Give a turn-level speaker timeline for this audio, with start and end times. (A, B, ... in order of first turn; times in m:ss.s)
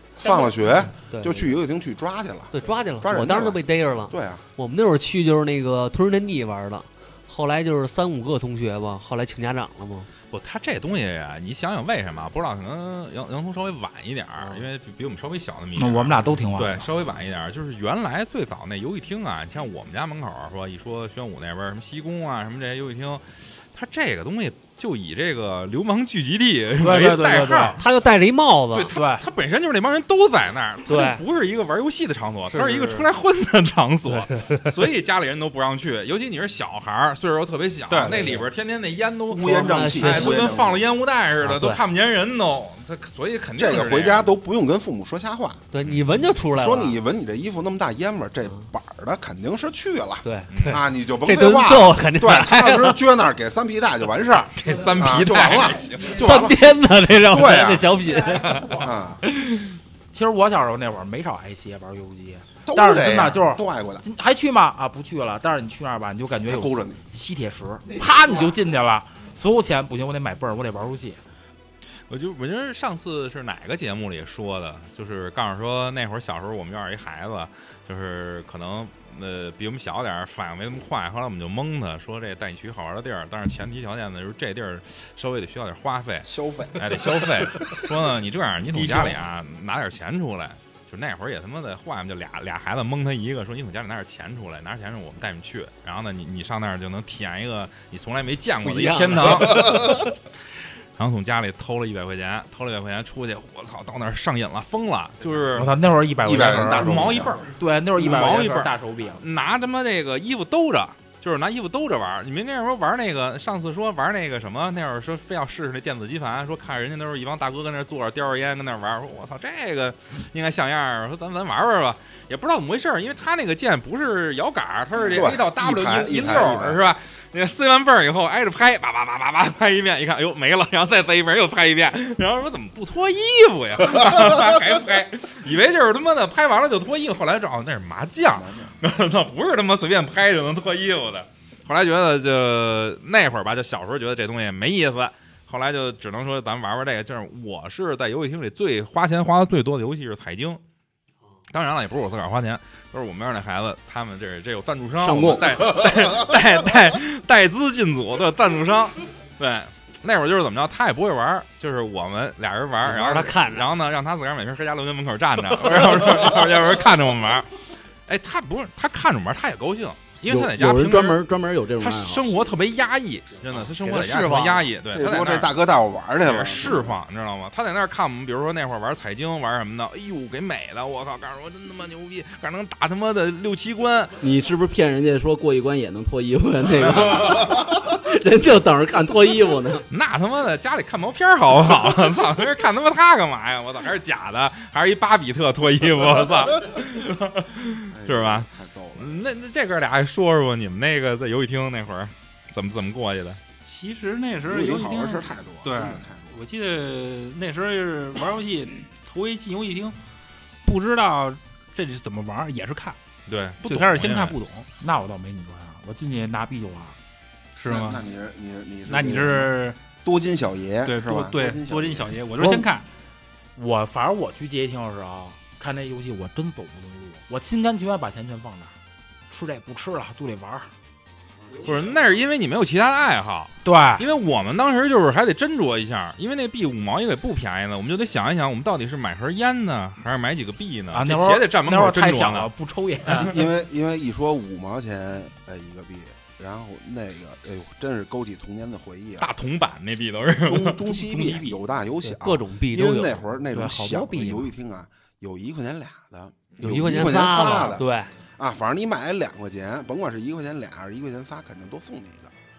0:00.2-0:04.4 A
0:00.2-0:01.6 B
0:02.5-0:10.1 B
0:10.3-0:27.8 C
0:15.8-0:16.9 D
0:26.8-0:27.8 D
0:27.8-0:28.9 B
0:28.7-0:44.3 C
0:28.9-0:29.2 D
0:30.9-0:31.2 B
0:32.5-0:33.1 B
0:34.1-0:34.7 B
0:37.9-0:38.2 E
0:38.0-0:38.5 B
0:39.3-0:40.8 A
0:39.4-0:40.7 B
0:41.4-0:41.8 B
0:43.6-0:45.6 A
0:45.7-0:47.0 B
0:46.5-0:56.6 A
0:50.2-0:53.0 B
0:50.5-0:50.8 C
0:54.6-0:56.2 C
0:56.0-0:58.9 B
0:57.3-0:57.9 A
0:58.7-0:59.2 A
0:59.4-0:59.7 C
1:00.1-1:11.2 D
1:02.6-1:04.0 A
1:06.5-1:07.0 A
1:12.1-1:40.1 C
1:26.2-1:27.5 A
1:28.7-1:29.2 E
1:38.6-1:40.0 B
1:41.0-1:45.7 C
1:45.6-1:49.2 D
1:46.2-1:47.4 A
1:46.8-2:30.6 C
2:05.0-2:06.8 A
2:18.3-2:18.8 A
2:31.5-2:47.6 C
2:35.0-2:35.8 F
2:42.8-2:43.7 B
2:48.1-2:51.2 C
2:50.3-2:52.3 F
2:51.8-2:55.5 C
2:53.5-2:54.7 B
2:54.9-2:56.9 A
2:56.2-3:04.2 C
3:04.2-3:09.9 F
3:06.8-3:07.2 C
3:09.9-3:23.4 C
3:17.9-3:19.2 A
3:23.6-3:30.0 E
3:24.5-3:26.4 A
3:30.6-3:33.0 E
3:33.3-3:34.4 C
3:33.6-3:34.7 E
3:34.8-3:37.0 D
3:37.6-3:38.0 E
3:37.7-3:42.2 A
3:38.9-3:39.8 E
3:40.8-3:42.9 E
3:42.4-3:42.6 D
3:43.6-3:48.7 D
3:49.3-3:50.7 D
3:51.6-4:02.5 C
3:53.6-3:54.1 D
4:00.9-4:03.3 D
4:03.1-4:09.3 A
4:09.2-4:10.8 C
4:10.4-4:22.3 A
4:10.9-4:11.6 E
4:12.0-4:13.2 B
4:13.5-4:14.5 D
4:16.5-4:17.1 C
4:16.6-4:18.1 B